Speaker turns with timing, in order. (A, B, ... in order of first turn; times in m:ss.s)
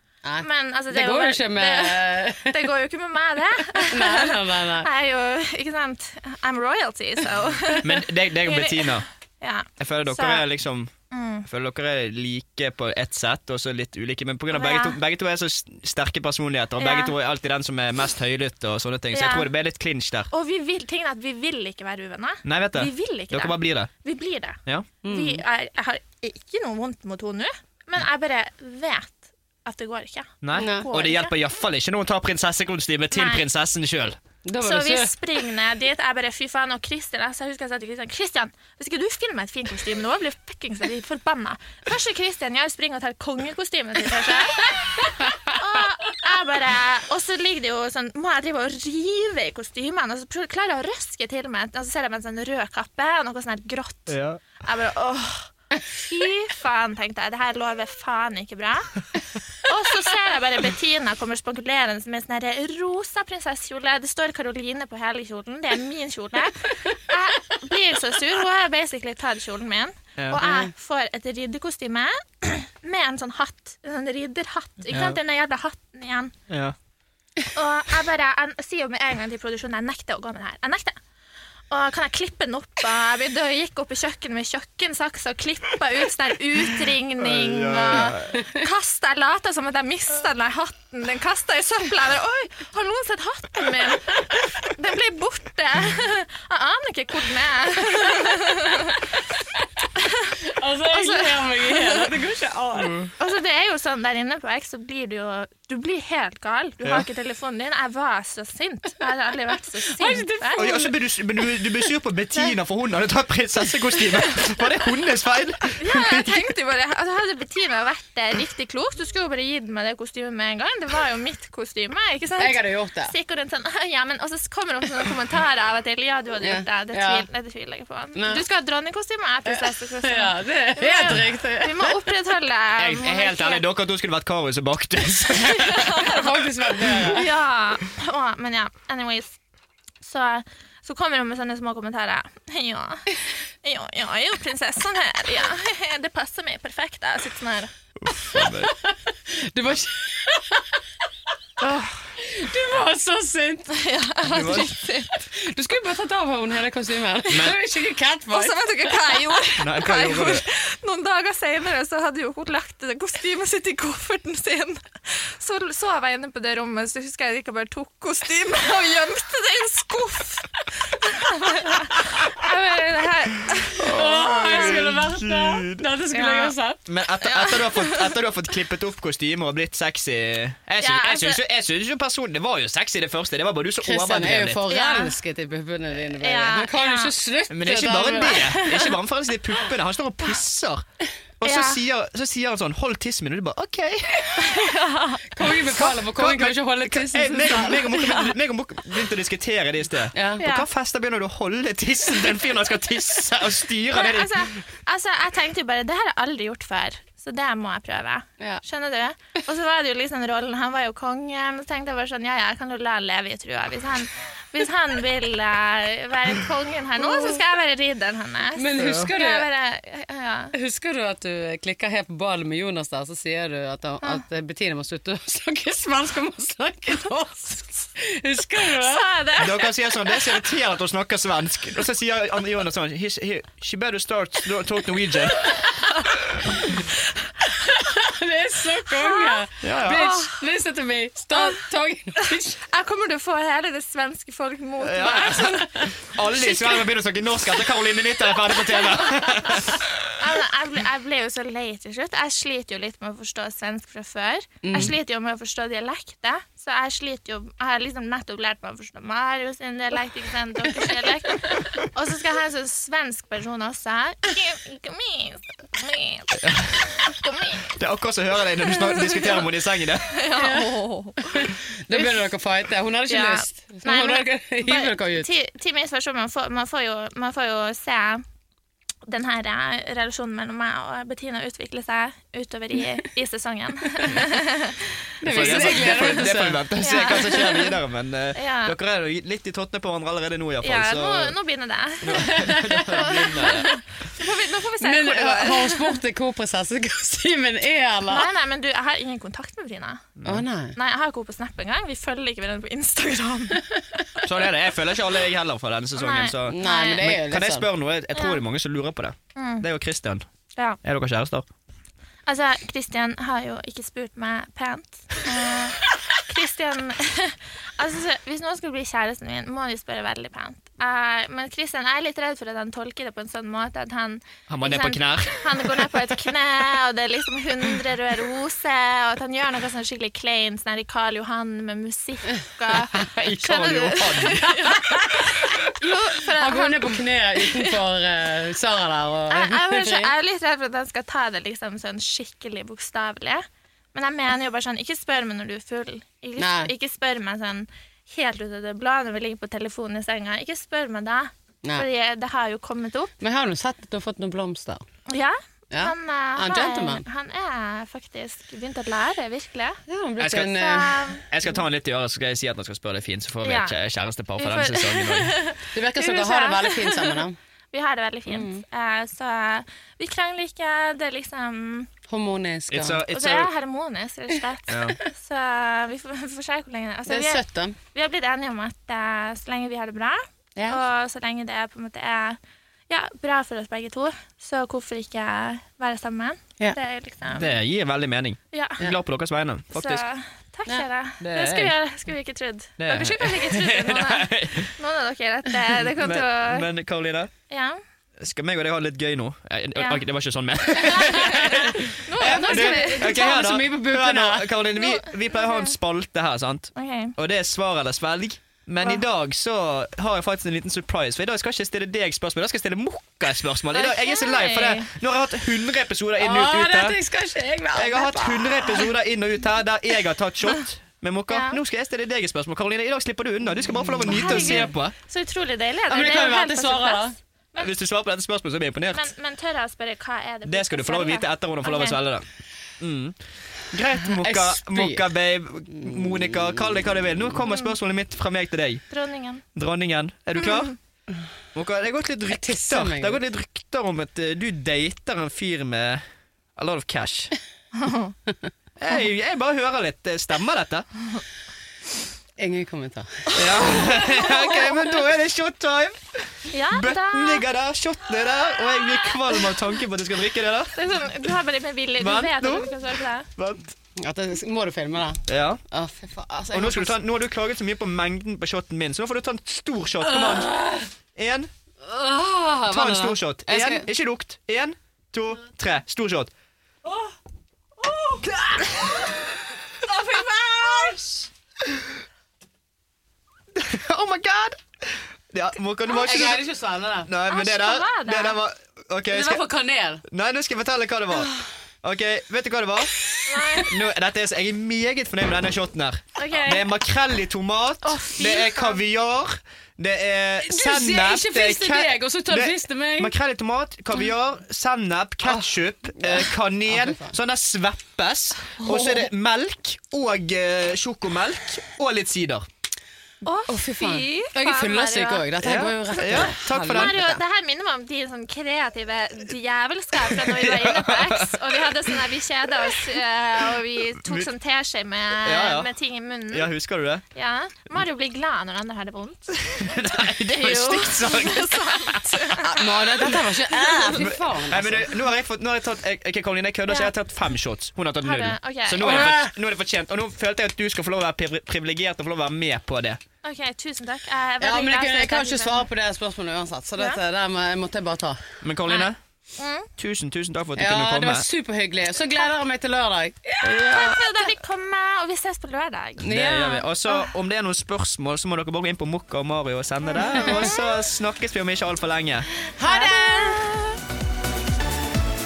0:00.2-0:02.7 A
0:00.4-0:10.4 B
0:03.8-0:04.9 A
0:07.8-0:09.0 C
0:09.8-0:10.9 C
0:11.1-0:11.4 B
0:11.4-0:20.3 C
0:14.5-0:15.0 B
0:16.8-0:17.1 B
0:19.1-0:19.5 B
0:20.3-0:31.3 B
0:22.4-0:23.9 C
0:25.0-0:25.4 A
0:30.4-0:34.2 C
0:30.5-0:30.9 A
0:33.1-0:33.4 B
0:34.4-0:35.1 A
0:34.6-1:16.3 B
0:44.8-0:45.5 A
0:54.1-0:54.4 C
1:10.4-1:10.7 A
1:14.9-1:15.2 C
1:16.5-1:16.7 C
1:17.5-1:21.0 B
1:21.7-1:39.1 B
1:27.2-1:28.4 C
1:40.0-1:42.0 B
1:40.4-1:43.0 A
1:42.8-1:43.1 C
1:43.2-1:50.7 B
1:49.8-1:50.9 A
1:50.6-1:56.4 C
1:55.8-2:13.6 B
2:02.4-2:03.1 A
2:06.4-2:07.3 A
2:08.1-2:08.4 A
2:09.4-2:12.0 A
2:12.8-2:16.1 C
2:15.5-2:16.4 B
2:16.0-2:17.3 A
2:17.1-2:19.4 B
2:20.0-2:27.7 B
2:28.0-2:28.7 C
2:28.3-2:30.8 A
2:31.6-2:32.0 C
2:32.2-2:33.8 A
2:33.7-2:35.2 B
2:34.3-2:34.7 C
2:35.2-2:38.7 A
2:37.3-2:37.6 C
2:38.3-2:53.8 B
2:39.6-2:40.4 C
2:53.7-2:56.8 A
2:53.8-2:55.8 C
2:56.1-2:56.5 B
2:56.8-3:04.6 C
2:57.2-2:58.2 B
3:00.8-3:01.4 B
3:03.8-3:08.5 A
3:04.7-3:05.1 B
3:06.2-3:07.1 B
3:07.5-3:10.8 C
3:08.4-3:08.9 B
3:11.4-3:14.6 C
3:11.4-3:11.8 B
3:14.4-3:15.2 B
3:15.3-3:18.2 A
3:15.7-3:24.6 C
3:20.1-3:20.4 A
3:20.4-3:20.7 B
3:23.9-3:40.5 B
3:37.0-3:37.4 A
3:38.5-3:39.5 A
3:38.8-3:39.1 C
3:40.5-3:49.1 A
3:48.7-3:50.3 B
3:49.4-3:55.5 C
3:57.6-4:02.6 A
3:59.0-3:59.4 B
3:59.6-4:00.1 C
4:00.0-4:00.2 B
4:02.6-4:06.9 B
4:04.8-4:10.1 C
4:08.7-4:09.6 B
4:10.1-4:26.4 B
4:14.6-4:14.9 A
4:26.4-4:26.9 C
4:27.0-4:27.7 B
4:27.8-4:30.2 C
4:28.7-4:29.4 B
4:30.1-4:32.2 B
4:30.3-4:30.7 A
4:31.2-4:35.3 A
4:33.1-4:38.2 B
4:39.1-4:47.8 B
4:45.2-4:47.3 A
4:45.2-4:51.3 C
4:48.3-4:48.7 B
4:50.6-4:56.0 B
4:52.0-4:53.7 C
4:52.1-4:53.2 A
4:54.8-4:58.3 A
4:58.1-5:00.1 B
5:00.2-5:00.4 C
5:00.2-5:00.8 A
5:00.8-5:03.6 B
5:04.2-5:10.2 C
5:06.0-5:07.1 B
5:06.5-5:07.7 A
5:08.1-5:08.4 B
5:09.4-5:09.6 B
5:10.8-5:11.5 C
5:12.3-5:37.0 B
5:24.5-5:25.7 C
5:33.0-5:34.6 C
5:34.6-5:35.4 A
5:36.3-5:40.1 A
5:39.3-5:53.1 B
5:46.4-5:46.7 A
5:53.2-5:54.8 A
5:55.1-5:59.8 B
5:55.7-5:57.0 A
5:59.9-6:01.2 A
6:00.2-6:00.5 C
6:00.4-6:01.3 B
6:01.3-6:05.3 C
6:03.4-6:03.8 B
6:04.4-6:11.9 B
6:05.7-6:07.4 A
6:08.3-6:08.6 A
6:12.1-6:13.0 A
6:12.7-6:13.5 C
6:13.1-6:17.4 B
6:14.7-6:15.0 C
6:17.1-6:17.8 A
6:17.9-6:27.5 B
6:27.3-6:30.0 C
6:28.5-6:28.9 B
6:29.7-6:36.7 B
6:31.2-6:31.7 C
6:32.8-6:34.7 C
6:35.8-6:37.3 C
6:37.5-6:37.8 B
6:38.2-6:57.0 C
6:39.8-6:40.0 B
6:41.0-6:43.3 B
6:42.2-6:44.5 A
6:44.8-6:45.7 B
6:46.8-6:47.1 B
6:53.7-6:54.9 B
6:56.2-6:58.8 A
6:57.7-7:04.9 C
7:01.3-7:01.6 B
7:04.0-7:04.7 A
7:04.1-7:07.7 B
7:05.9-7:07.1 A
7:07.6-7:09.1 C
7:08.9-7:12.0 B
7:10.5-7:12.3 C
7:12.8-7:13.2 C
7:13.7-7:18.8 C
7:14.0-7:15.0 A
7:15.7-7:16.5 A
7:17.5-7:17.7 B
7:18.9-7:19.4 B
7:19.5-7:20.8 C
7:21.5-7:26.0 C
7:22.3-7:23.2 A
7:26.6-7:27.3 C
7:27.8-7:28.1 B
7:28.8-7:30.9 C
7:32.4-7:34.2 A
7:33.4-7:40.8 C
7:36.5-7:37.5 B
7:40.7-7:43.3 B
7:42.0-7:42.7 C
7:43.4-7:43.7 C
7:44.0-7:46.9 A
7:45.3-7:45.6 C
7:46.5-7:50.5 C
7:50.0-7:50.9 A
7:51.1-7:51.5 C
7:51.8-7:53.9 A
7:52.7-7:56.3 C
7:57.9-7:59.0 A
7:58.2-7:59.0 C
7:59.8-8:01.3 A
8:03.5-8:06.4 C
8:05.9-8:07.1 A
8:07.0-8:09.4 C
8:07.3-8:08.4 B
8:09.1-8:10.0 A
8:10.0-8:11.3 C
8:11.8-8:12.9 C
8:13.1-8:13.7 A
8:13.2-8:13.7 B
8:13.6-8:32.4 C
8:16.2-8:16.6 B
8:17.9-8:18.8 B
8:20.4-8:23.1 A
8:25.2-8:27.2 A
8:33.2-8:46.5 B
8:33.5-8:37.2 A
8:35.4-8:36.9 C
8:40.2-8:41.5 C
8:44.0-8:44.3 C
8:45.2-8:45.7 C
8:46.3-8:47.0 C
8:47.1-8:52.6 B
8:49.5-8:52.4 C
8:52.4-8:55.0 A
8:53.7-9:03.0 C
8:56.7-8:56.9 B
8:58.0-8:59.1 B
8:58.8-8:59.3 A
9:03.2-9:05.7 B
9:04.4-9:08.3 A
9:08.4-9:09.0 C
9:08.7-9:09.7 B
9:09.8-9:11.3 C
9:10.6-9:14.0 A
9:13.4-9:14.0 C
9:13.6-9:17.1 B
9:16.0-9:22.3 C
9:16.0-9:16.6 A
9:20.0-9:20.8 B
9:22.6-9:23.7 A
9:22.6-9:23.6 B